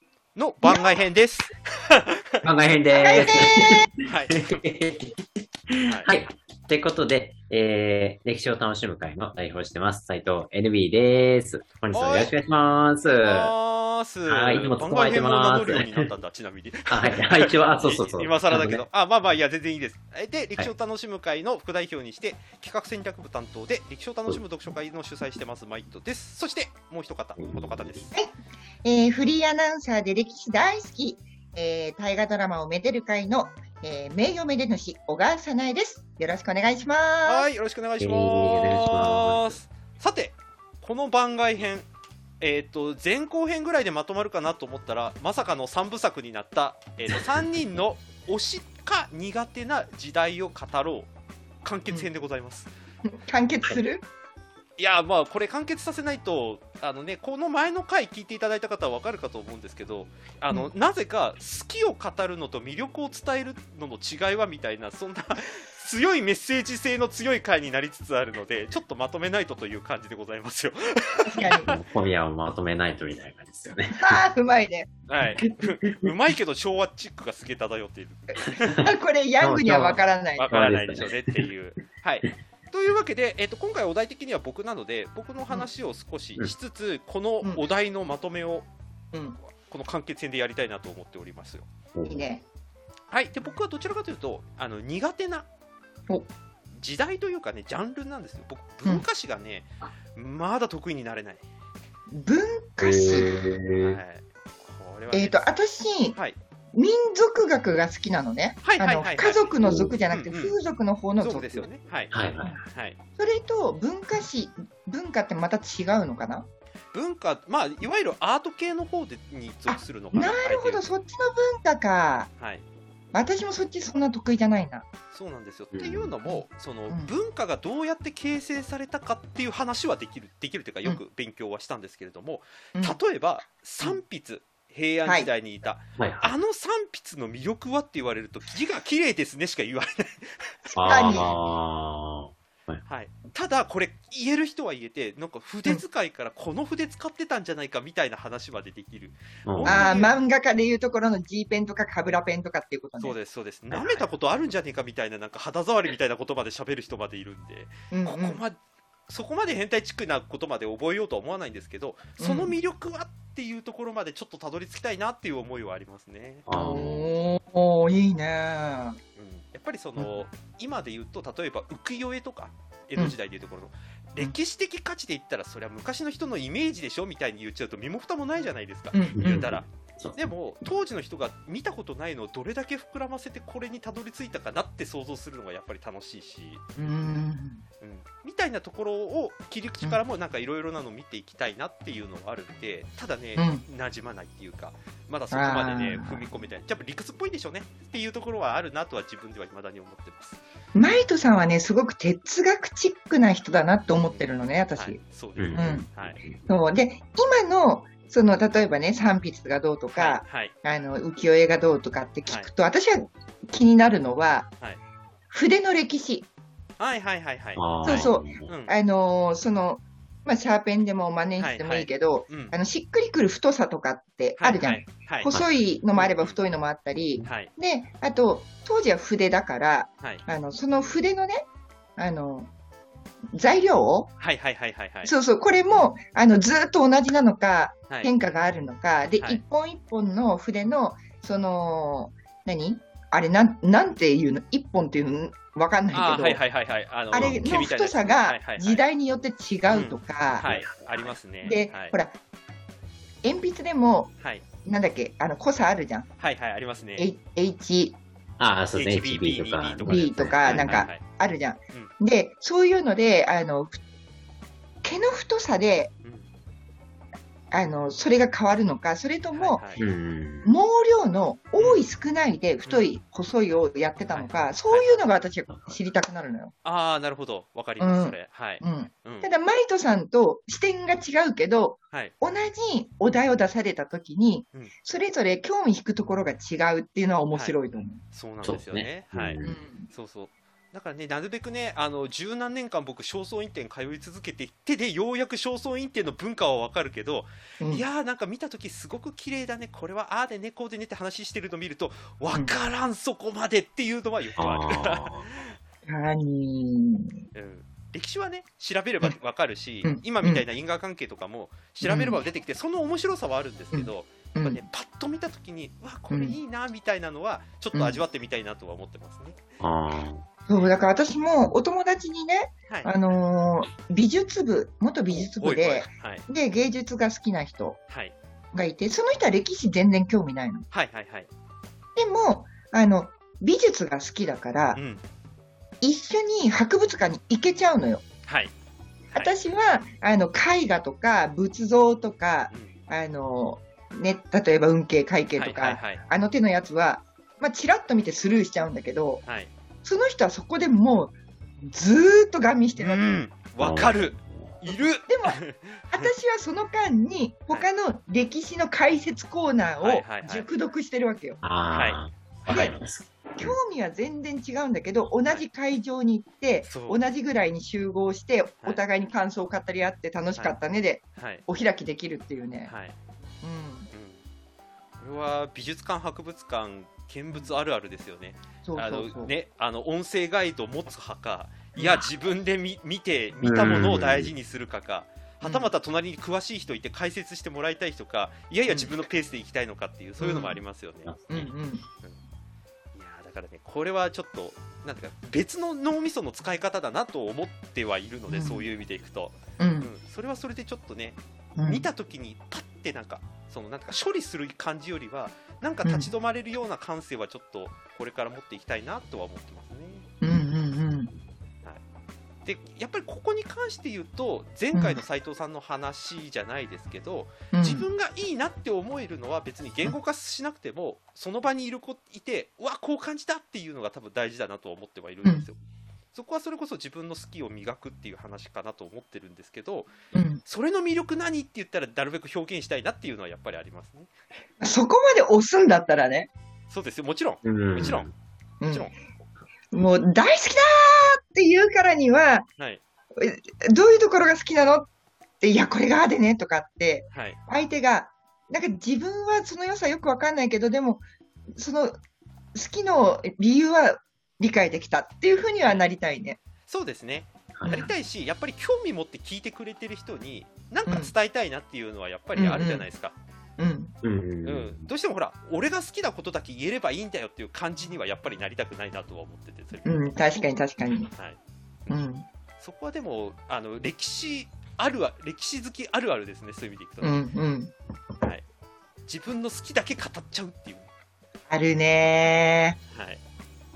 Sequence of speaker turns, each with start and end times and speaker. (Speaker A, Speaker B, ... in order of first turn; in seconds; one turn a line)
Speaker A: 0.4-2.4
Speaker B: 0.6-1.0
Speaker C: 2.4-13.5
Speaker B: 2.9-3.9
Speaker A: 4.0-4.5
Speaker A: 11.9-12.3
Speaker A: 13.2-28.1
Speaker C: 14.3-16.1
Speaker C: 16.9-18.8
Speaker C: 27.4-28.1
Speaker B: 28.1-37.5
Speaker A: 37.2-41.9
Speaker C: 38.0-39.6
Speaker A: 42.4-51.1
Speaker C: 47.1-47.5
Speaker A: 51.6-52.7
Speaker B: 53.0-54.0
Speaker A: 54.8-71.7
Speaker B: 71.3-71.7
Speaker C: 71.7-74.1
Speaker B: 74.0-74.9
Speaker A: 75.1-78.9
Speaker B: 78.7-80.5
Speaker C: 79.4-81.2
Speaker A: 80.4-88.7
Speaker B: 89.1-89.4
Speaker A: 89.7-91.7
Speaker C: 91.9-92.2
Speaker B: 92.1-92.4
Speaker A: 93.1-95.5
Speaker A: 96.8-101.4
Speaker B: 102.1-103.4
Speaker C: 102.8-104.0
Speaker A: 103.8-105.5
Speaker B: 105.1-106.2
Speaker A: 106.1-106.4
Speaker B: 106.7-111.7
Speaker A: 108.6-109.5
Speaker C: 109.6-110.0
Speaker A: 110.1-110.6
Speaker A: 111.2-112.1
Speaker C: 112.1-112.6
Speaker A: 112.7-113.0
Speaker B: 113.2-116.5
Speaker A: 116.9-120.9
Speaker B: 119.7-122.3
Speaker A: 122.4-122.6
Speaker B: 123.1-124.9
Speaker A: 125.1-141.3
Speaker C: 125.7-126.1
Speaker B: 126.3-127.1
Speaker B: 135.1-135.3
Speaker C: 136.0-136.3
Speaker B: 140.7-141.3
Speaker C: 140.8-142.8
Speaker A: 142.8-150.2
Speaker C: 149.5-149.9
Speaker B: 149.7-153.2
Speaker A: 153.0-166.5
Speaker C: 153.7-154.1
Speaker B: 157.9-158.4
Speaker B: 162.2-162.6
Speaker C: 166.5-167.1
Speaker B: 166.5-169.0
Speaker A: 169.2-186.6
Speaker B: 178.9-179.6
Speaker C: 179.2-180.3
Speaker B: 186.8-187.6
Speaker A: 187.8-200.4
Speaker B: 193.4-193.6
Speaker B: 195.3-196.2
Speaker B: 200.7-205.0
Speaker A: 203.9-206.2
Speaker C: 205.4-206.4
Speaker B: 205.5-205.9
Speaker B: 206.5-214.5
Speaker A: 209.9-210.5
Speaker A: 212.3-212.5
Speaker B: 215.3-216.3
Speaker A: 216.8-218.7
Speaker C: 217.6-218.5
Speaker B: 217.8-232.5
Speaker A: 221.4-222.6
Speaker A: 224.4-225.3
Speaker C: 225.3-225.6
Speaker A: 225.9-226.4
Speaker A: 227.2-227.5
Speaker B: 233.3-234.1
Speaker A: 234.2-235.1
Speaker B: 235.0-246.5
Speaker A: 237.9-238.2
Speaker A: 245.9-248.8
Speaker B: 247.1-250.5
Speaker A: 249.7-252.0
Speaker C: 250.4-251.2
Speaker B: 251.4-252.2
Speaker B: 253.2-254.1
Speaker A: 254.2-254.4
Speaker B: 254.6-256.1
Speaker A: 256.2-257.1
Speaker B: 257.0-258.0
Speaker C: 258.4-260.9
Speaker A: 258.7-261.0
Speaker B: 259.9-263.8
Speaker B: 264.8-265.9
Speaker A: 266.0-266.3
Speaker B: 267.5-269.7
Speaker A: 269.3-269.9
Speaker C: 269.8-270.5
Speaker B: 270.4-276.5
Speaker A: 271.6-271.9
Speaker A: 274.1-275.1
Speaker C: 275.5-275.8
Speaker A: 276.6-279.3
Speaker B: 277.8-288.0
Speaker A: 287.3-287.6
Speaker A: 288.1-305.6
Speaker C: 288.4-289.6
Speaker B: 289.4-289.9
Speaker B: 297.6-297.9
Speaker C: 304.4-305.3
Speaker B: 305.9-307.2
Speaker A: 307.4-319.6
Speaker B: 309.8-310.5
Speaker B: 311.8-312.2
Speaker B: 313.7-314.6
Speaker B: 316.1-316.4
Speaker B: 317.7-318.0
Speaker C: 319.6-320.2
Speaker B: 320.5-327.8
Speaker A: 322.7-322.9
Speaker A: 325.1-326.2
Speaker A: 327.9-328.1
Speaker B: 328.5-330.7
Speaker A: 330.7-331.3
Speaker B: 332.0-334.8
Speaker A: 334.8-335.0
Speaker B: 335.8-338.0
Speaker A: 338.3-338.5
Speaker B: 339.1-349.2
Speaker A: 345.4-346.0
Speaker A: 349.2-349.5
Speaker B: 349.8-353.3
Speaker A: 352.8-356.1
Speaker C: 353.6-354.5
Speaker B: 355.1-355.4
Speaker B: 355.9-361.4
Speaker A: 359.8-360.5
Speaker C: 361.4-363.6
Speaker A: 361.7-362.0
Speaker B: 362.5-362.8
Speaker B: 363.4-372.7
Speaker A: 366.6-367.0
Speaker A: 371.2-371.4
Speaker A: 372.7-373.0
Speaker B: 373.4-373.9
Speaker A: 373.9-374.2
Speaker A: 375.0-391.4
Speaker B: 378.6-379.3
Speaker B: 381.8-382.0
Speaker C: 383.4-384.3
Speaker B: 385.4-385.7
Speaker B: 388.7-389.0
Speaker B: 390.2-390.6
Speaker C: 391.1-391.4
Speaker B: 391.3-391.8
Speaker A: 392.9-410.1
Speaker B: 398.3-398.7
Speaker B: 399.6-399.9
Speaker B: 401.6-401.9
Speaker B: 405.8-406.1
Speaker B: 410.2-411.1
Speaker A: 412.4-425.6
Speaker B: 414.7-415.0
Speaker B: 417.5-417.9
Speaker A: 426.1-434.1
Speaker B: 430.1-430.4
Speaker B: 434.6-436.3
Speaker A: 436.7-438.1
Speaker C: 437.4-438.1
Speaker B: 438.6-438.9
Speaker A: 438.7-438.9
Speaker B: 439.7-442.5
Speaker B: 443.2-444.9
Speaker B: 445.4-451.0
Speaker A: 447.1-447.4
Speaker B: 451.6-452.0
Speaker B: 452.5-456.4
Speaker A: 455.6-455.9
Speaker A: 456.7-463.1
Speaker B: 457.6-457.9
Speaker B: 460.9-461.1
Speaker B: 462.4-462.9
Speaker B: 463.6-463.9
Speaker C: 464.0-464.9
Speaker A: 464.4-470.1
Speaker B: 469.8-471.1
Speaker A: 471.1-471.9
Speaker B: 471.9-472.2
Speaker A: 472.6-477.2
Speaker B: 477.0-477.7
Speaker A: 479.1-480.9
Speaker B: 481.5-482.8
Speaker A: 482.9-483.2